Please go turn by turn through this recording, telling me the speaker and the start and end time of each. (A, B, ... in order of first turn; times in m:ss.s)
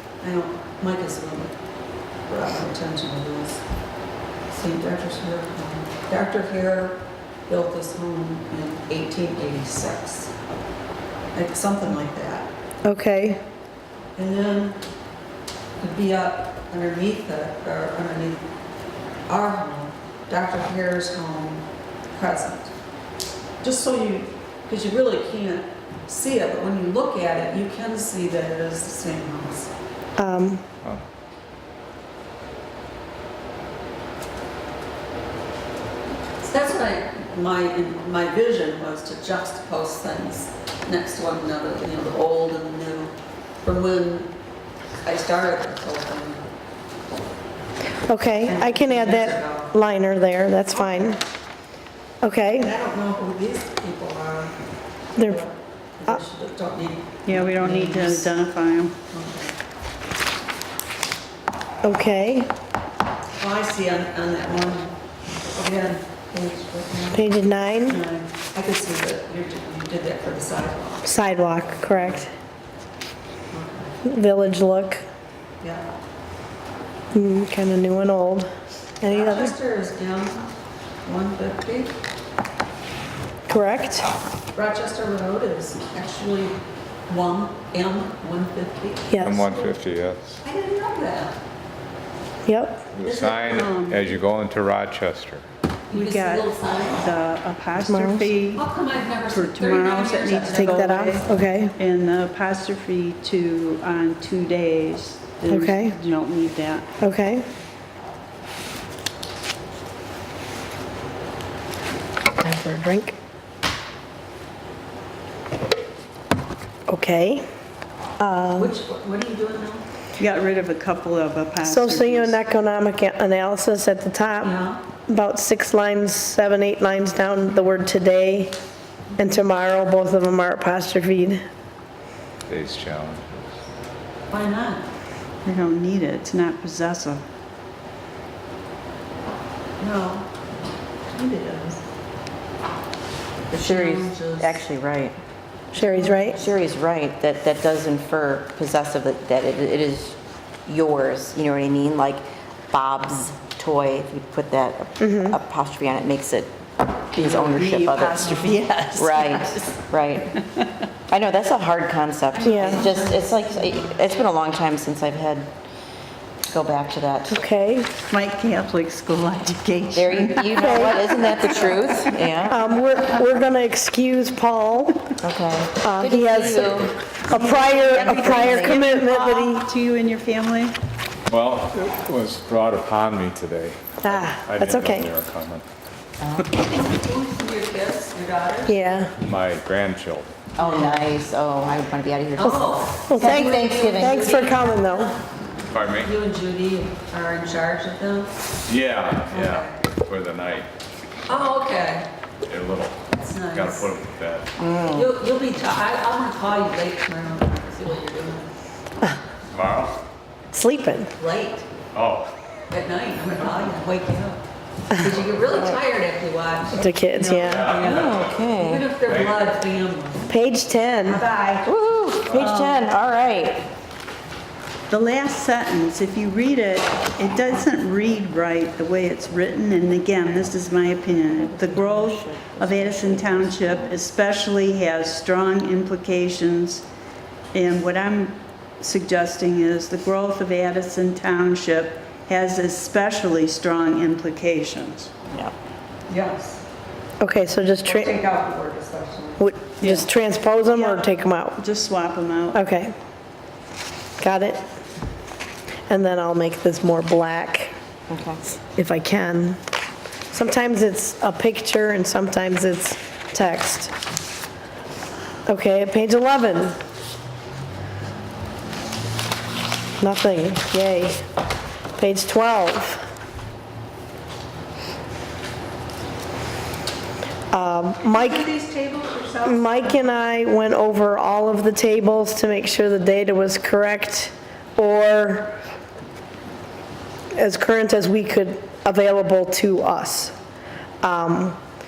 0:00.2-0:01.5 A
0:02.3-0:03.6 A
0:04.5-0:10.3 A
0:11.3-0:12.5 A
0:12.8-0:13.4 B
0:14.2-0:14.8 A
0:15.8-0:18.5 A
0:19.3-0:22.7 A
0:23.6-0:29.7 A
0:30.2-0:30.6 B
0:36.4-0:44.3 A
0:45.0-0:46.5 A
0:48.1-0:51.2 B
0:48.4-0:49.8 A
0:52.2-0:52.7 B
0:52.6-0:54.6 A
0:55.2-0:55.4 B
0:55.2-0:58.3 A
0:57.2-0:58.9 C
0:59.1-0:59.5 A
1:01.8-1:02.5 B
1:03.4-1:04.9 A
1:05.5-1:07.3 A
1:07.1-1:08.0 B
1:07.8-1:12.2 A
1:11.0-1:12.3 B
1:13.5-1:13.9 A
1:14.0-1:15.0 B
1:15.6-1:15.9 A
1:17.1-1:18.5 B
1:19.0-1:19.5 B
1:19.1-1:20.5 A
1:21.0-1:22.0 A
1:23.5-1:24.0 B
1:24.5-1:29.6 A
1:29.1-1:29.5 B
1:29.2-1:30.4 D
1:30.4-1:31.4 A
1:32.4-1:32.9 B
1:32.9-1:35.4 D
1:33.1-1:33.4 A
1:33.3-1:34.1 C
1:35.9-1:38.6 C
1:35.9-1:37.0 A
1:37.7-1:38.3 B
1:38.5-1:41.2 A
1:39.3-1:46.8 C
1:40.5-1:41.7 B
1:45.5-1:45.9 B
1:47.0-1:47.4 B
1:52.4-1:53.2 B
1:56.9-1:57.4 B
1:58.2-1:58.7 B
1:58.6-1:59.8 A
2:00.2-2:02.4 C
2:01.6-2:04.5 B
2:04.4-2:04.8 A
2:05.1-2:08.6 B
2:09.2-2:11.4 B
2:12.5-2:13.6 D
2:14.3-2:14.9 A
2:15.4-2:17.2 C
2:19.8-2:20.3 A
2:21.1-2:21.8 A
2:23.5-2:25.2 E
2:23.5-2:24.6 A
2:25.7-2:26.4 B
2:25.8-2:26.4 A
2:26.4-2:40.4 E
2:35.0-2:35.4 B
2:37.2-2:39.7 C
2:41.1-2:45.5 E
2:42.4-2:44.0 A
2:42.4-2:42.8 B
2:42.5-2:43.1 C
2:46.5-2:47.4 E
2:47.3-2:47.9 B
2:48.0-2:52.2 C
2:49.9-2:52.6 E
2:50.6-2:51.0 B
2:52.4-2:55.1 B
2:55.2-2:58.8 E
2:55.8-2:59.7 B
2:57.3-3:00.7 C
3:01.3-3:05.6 D
3:04.0-3:05.1 B
3:06.2-3:06.5 E
3:06.4-3:08.8 A
3:08.7-3:09.1 B
3:09.2-3:10.3 D
3:10.6-3:14.3 E
3:10.6-3:10.9 A
3:12.4-3:15.2 A
3:12.4-3:15.1 B
3:15.7-3:16.1 D
3:15.9-3:18.3 A
3:18.7-3:20.7 D
3:19.3-3:19.8 A
3:21.3-3:22.1 A
3:22.4-3:24.5 D
3:23.1-3:23.9 A
3:24.6-3:25.1 E
3:24.9-3:28.5 A
3:29.5-3:29.9 D
3:30.5-3:31.1 B
3:31.2-3:31.7 A
3:31.9-3:32.3 D
3:32.7-3:34.4 A
3:34.9-3:40.3 A
3:36.7-3:37.7 B
3:37.4-3:38.4 D
3:37.8-3:38.9 E
3:39.1-3:39.4 D
3:40.3-3:41.2 B
3:41.0-3:41.7 A
3:41.6-3:43.7 E
3:42.4-3:42.7 A
3:44.9-3:56.8 C
3:51.3-3:54.0 E
3:57.5-4:05.1 C
4:06.1-4:06.6 A
4:07.2-4:08.2 B
4:07.8-4:09.5 A
4:09.4-4:11.6 B
4:09.8-4:10.1 C
4:10.6-4:12.6 C
4:12.5-4:12.9 B
4:14.2-4:14.6 B
4:15.9-4:17.7 B
4:18.1-4:18.4 E
4:18.7-4:19.6 B
4:20.3-4:23.9 B
4:25.4-4:26.8 B
4:30.0-4:31.2 B
4:32.0-4:33.0 B
4:37.5-4:38.5 B
4:38.0-4:40.0 A
4:39.4-4:45.6 B
4:47.3-4:50.3 B
4:51.0-4:51.6 B